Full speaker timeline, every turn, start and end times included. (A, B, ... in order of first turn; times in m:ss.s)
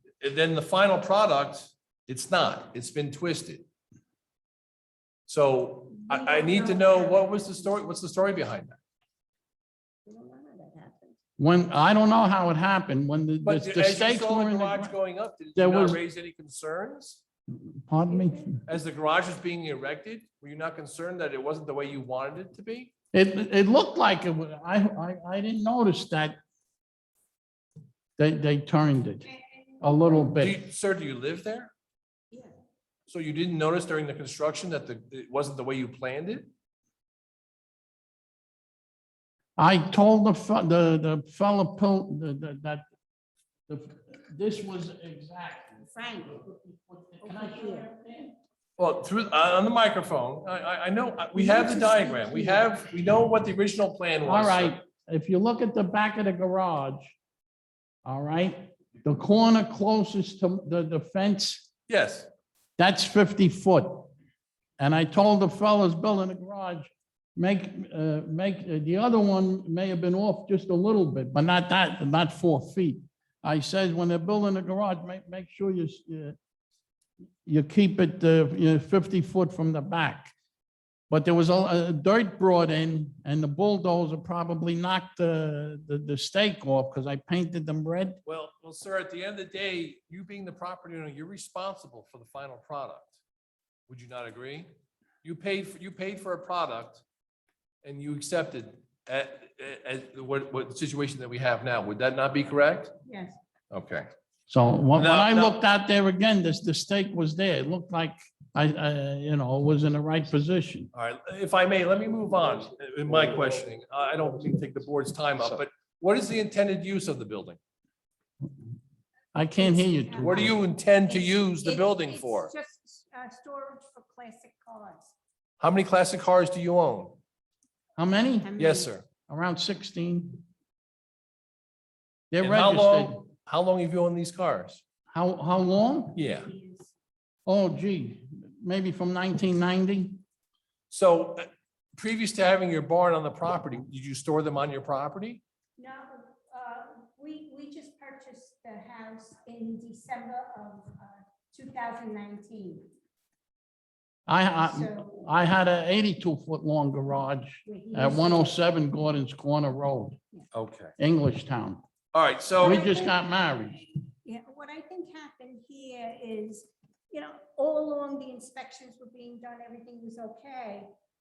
0:00.2-0:03.6 A
0:05.3-0:08.8 A
0:06.0-0:07.6 B
0:10.0-0:11.2 B
0:11.4-0:14.9 C
0:13.4-0:17.2 A
0:15.6-0:16.0 C
0:17.5-0:18.6 C
0:18.1-0:18.5 B
0:18.7-0:22.9 A
0:23.1-0:26.4 C
0:28.2-0:29.2 C
0:29.2-0:30.3 B
0:29.8-0:30.6 C
0:30.4-0:31.7 A
0:33.1-0:36.5 A
0:39.6-0:42.8 C
0:43.7-0:48.3 C
0:45.8-0:46.4 B
0:47.2-0:47.9 B
0:48.8-0:54.7 A
0:51.3-0:52.6 B
0:54.2-0:57.2 C
0:58.0-1:01.7 C
1:01.9-1:02.3 A
1:02.8-1:04.1 C
1:04.8-1:16.4 C
1:17.4-1:20.3 C
1:21.1-1:28.2 C
1:28.2-1:33.2 A
1:33.9-1:34.7 A
1:35.2-1:37.0 A
1:37.8-1:42.9 A
1:43.0-1:43.4 B
1:43.7-1:44.1 A
1:44.5-1:50.9 C
1:44.9-1:45.5 A
1:50.9-1:57.6 A
1:59.3-2:00.5 C
1:59.6-2:00.6 B
2:00.2-2:02.5 A
2:01.1-2:05.1 B
2:05.6-2:07.2 A
2:08.0-2:08.5 C
2:08.4-2:08.9 B
2:08.6-2:09.0 A
2:09.3-2:10.4 C
2:12.3-2:13.2 C
2:12.4-2:14.8 A
2:15.1-2:16.2 C
2:16.2-2:16.5 A
2:16.2-2:16.9 B
2:17.4-2:20.2 C
2:20.9-2:25.4 A
2:25.8-2:32.9 B
2:34.3-2:40.2 C
2:34.6-2:35.3 B
2:37.6-2:38.6 B
2:40.5-2:40.9 A
2:41.0-2:41.8 C
2:42.1-2:42.9 A
2:42.6-2:43.8 C
2:42.6-2:50.9 B